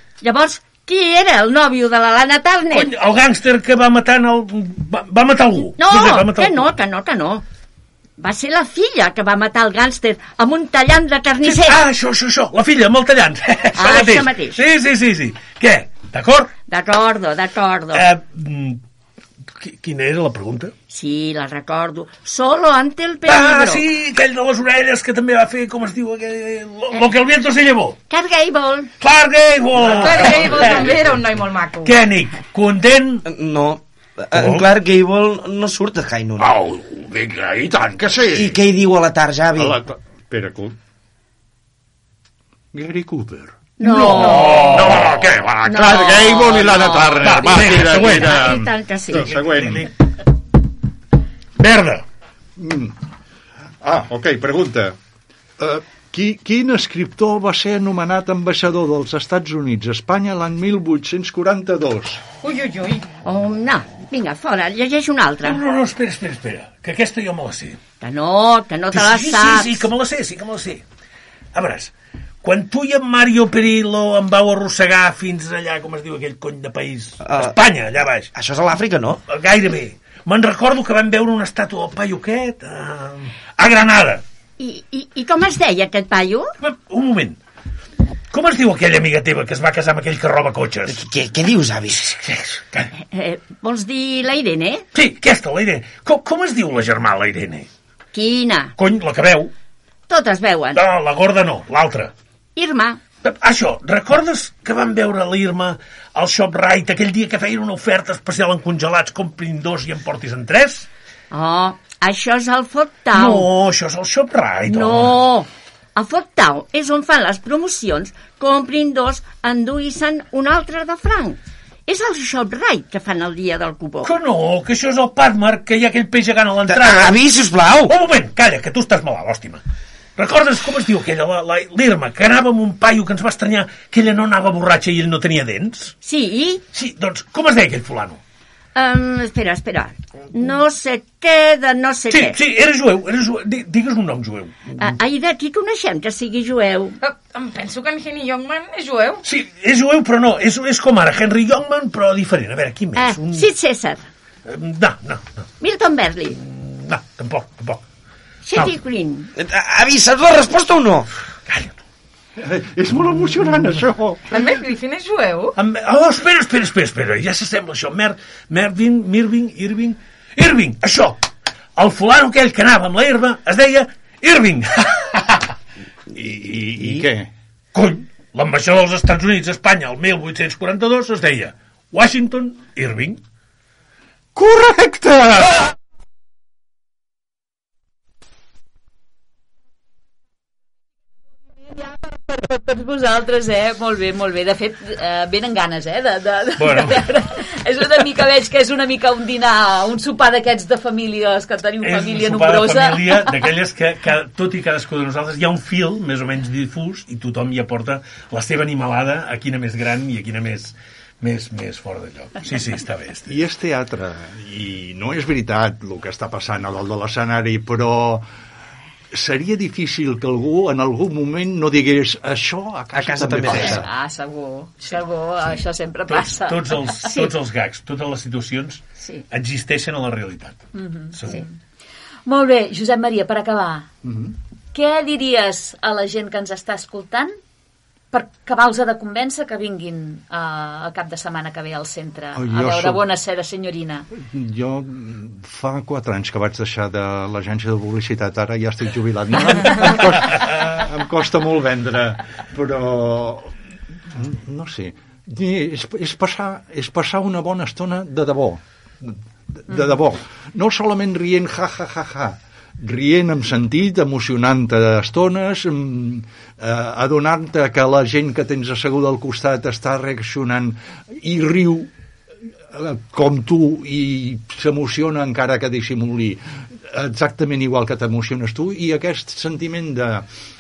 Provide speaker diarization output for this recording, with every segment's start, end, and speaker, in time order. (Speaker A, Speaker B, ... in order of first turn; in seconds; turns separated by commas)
Speaker A: 0.2-2.9, Speaker B: 2.7-6.7, Speaker A: 5.8-7.4, Speaker A: 8.2-11.8, Speaker B: 11.4-16.5, Speaker A: 13.7-14.6, Speaker A: 16.7-18.1, Speaker B: 17.9-18.8, Speaker B: 19.6-20.7, Speaker A: 20.9-23.8, Speaker B: 23.2-28.0, Speaker A: 28.1-28.9, Speaker B: 29.0-31.1, Speaker C: 29.8-32.0, Speaker B: 31.8-33.2, Speaker D: 33.2-36.5, Speaker B: 34.3-34.7, Speaker B: 36.4-37.8, Speaker E: 37.5-38.6, Speaker D: 38.3-39.8, Speaker E: 39.5-40.7, Speaker E: 42.7-49.9, Speaker A: 43.8-45.0, Speaker B: 43.9-49.9, Speaker A: 45.6-49.4, Speaker B: 51.6-52.0, Speaker E: 52.6-53.0, Speaker E: 53.8-55.0, Speaker E: 55.6-62.2, Speaker C: 62.4-63.1, Speaker A: 63.2-65.6, Speaker B: 65.4-67.8, Speaker A: 68.0-69.8, Speaker B: 68.9-70.8, Speaker B: 71.5-71.9, Speaker B: 72.4-78.3, Speaker D: 77.2-77.6, Speaker D: 78.3-79.2, Speaker B: 79.3-84.2, Speaker A: 84.6-86.5, Speaker B: 86.6-87.4, Speaker B: 88.3-91.0, Speaker D: 90.9-92.1, Speaker B: 92.0-92.9, Speaker A: 93.1-94.8, Speaker B: 94.9-97.7, Speaker A: 98.1-98.7, Speaker B: 98.8-99.5, Speaker A: 100.1-100.8, Speaker B: 100.7-102.1, Speaker A: 102.5-103.0, Speaker B: 103.2-110.9, Speaker A: 111.3-113.5, Speaker B: 113.1-115.2, Speaker A: 114.7-124.1, Speaker B: 124.0-127.2, Speaker D: 126.7-127.9, Speaker B: 127.8-129.6, Speaker B: 130.2-135.9, Speaker A: 136.0-136.6, Speaker B: 136.7-138.2, Speaker A: 138.7-142.4, Speaker B: 142.1-144.7, Speaker A: 144.8-147.0, Speaker C: 147.0-149.2, Speaker B: 149.2-153.4, Speaker A: 152.9-154.0, Speaker B: 154.5-155.2, Speaker A: 155.6-156.4, Speaker B: 156.4-157.8, Speaker A: 158.4-159.3, Speaker D: 159.3-161.1, Speaker B: 161.5-161.7, Speaker E: 162.4-164.4, Speaker C: 164.3-165.5, Speaker B: 165.6-171.2, Speaker B: 171.8-175.4, Speaker E: 176.1-177.3, Speaker B: 177.7-183.2, Speaker E: 184.3-185.5, Speaker F: 192.0-203.3, Speaker B: 196.6-197.0, Speaker B: 201.8-213.3, Speaker E: 213.3-218.2, Speaker E: 219.1-223.9, Speaker D: 222.9-223.8, Speaker F: 223.5-226.8, Speaker B: 226.1-231.4, Speaker A: 227.0-227.3, Speaker A: 229.0-229.2, Speaker F: 230.8-231.1, Speaker F: 232.2-233.9, Speaker E: 234.0-234.3, Speaker F: 234.7-237.3, Speaker F: 238.1-244.1, Speaker E: 242.3-243.0, Speaker E: 244.1-253.5, Speaker E: 254.1-271.9, Speaker E: 272.7-280.3